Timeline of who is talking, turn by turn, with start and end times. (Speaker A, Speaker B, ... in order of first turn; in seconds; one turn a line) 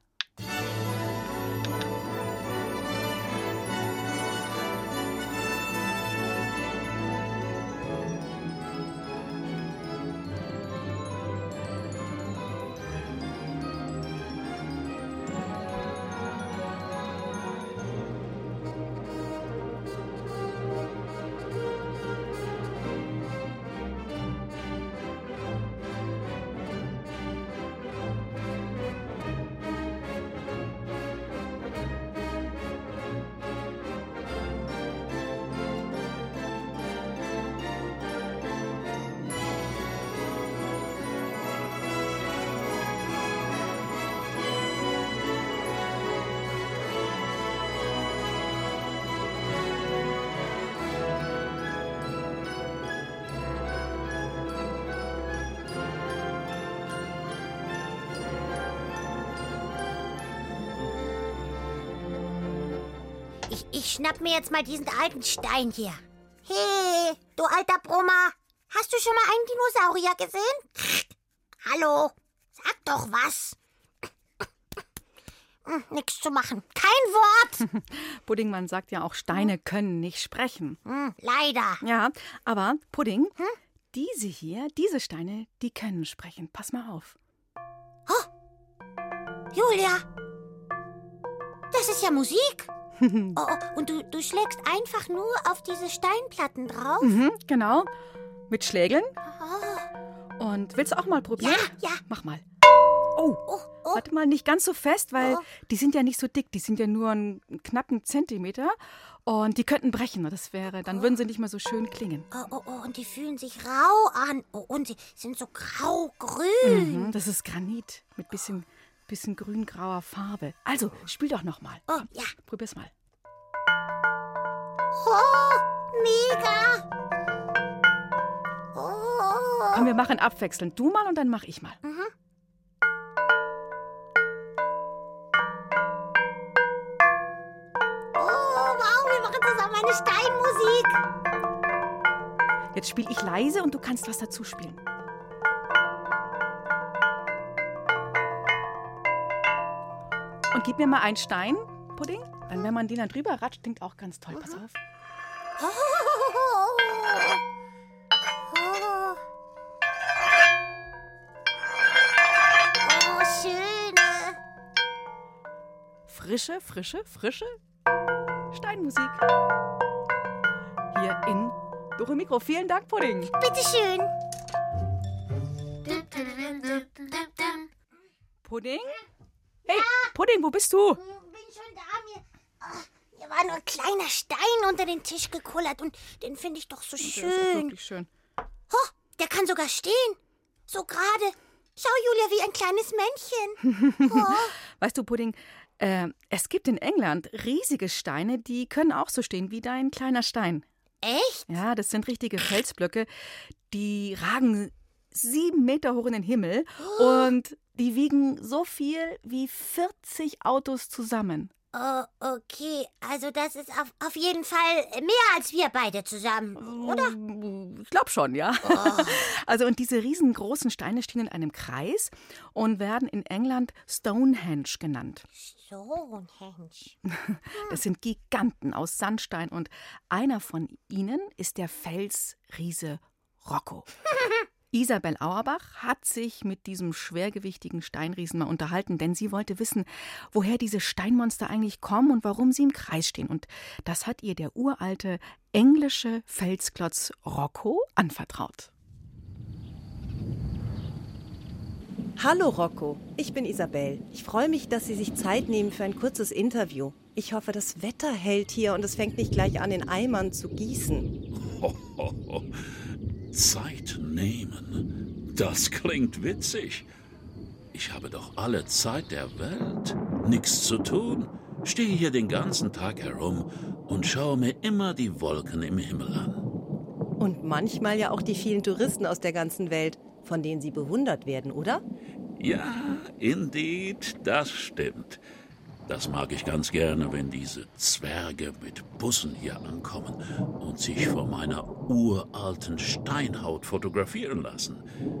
Speaker A: 63.5-71.1
Speaker A: 71.6-73.5
Speaker A: 75.7-77.6
Speaker B: 77.6-80.8
Speaker A: 80.8-81.8
Speaker B: 81.8-83.3
Speaker B: 83.9-87.2
Speaker A: 89.5-90.0
Speaker A: 91.7-92.7
Speaker B: 93.0-93.4
Speaker A: 93.3-97.1
Speaker B: 97.0-97.9
Speaker B: 98.5-99.1
Speaker A: 99.2-99.9
Speaker B: 100.4-102.4
Speaker A: 101.4-102.0
Speaker B: 103.2-103.4
Speaker A: 103.5-104.0
Speaker B: 103.9-112.3
Speaker A: 105.2-105.5
Speaker A: 112.3-117.1
Speaker B: 116.6-122.9
Speaker A: 121.9-122.3
Speaker A: 124.9-126.8
Speaker A: 128.7-129.8
Speaker B: 129.7-131.8
Speaker A: 131.8-132.1
Speaker A: 138.2-141.0
Speaker B: 142.7-144.8
Speaker B: 150.5-154.8
Speaker A: 155.6-157.4
Speaker A: 158.5-159.2
Speaker A: 162.8-164.4
Speaker B: 166.1-167.6
Speaker B: 168.5-169.2
Speaker B: 170.9-173.3
Speaker A: 173.3-174.1
Speaker A: 175.8-177.7
Speaker B: 178.4-179.0
Speaker B: 179.7-181.0
Speaker A: 179.7-180.1
Speaker A: 181.0-187.7
Speaker B: 187.0-188.1
Speaker A: 188.7-194.5
Speaker B: 193.7-200.6
Speaker A: 201.0-201.5
Speaker B: 201.5-203.1
Speaker B: 203.7-211.5
Speaker A: 206.8-207.3
Speaker A: 211.7-217.1
Speaker B: 216.6-225.2
Speaker A: 218.6-219.2
Speaker A: 225.3-226.9
Speaker B: 227.0-233.9
Speaker B: 234.7-248.7
Speaker C: 252.2-261.1
Speaker D: 261.4-262.6
Speaker D: 263.3-266.9
Speaker D: 267.7-276.4
Speaker C: 277.2-281.8
Speaker D: 282.4-285.2
Speaker D: 285.9-294.8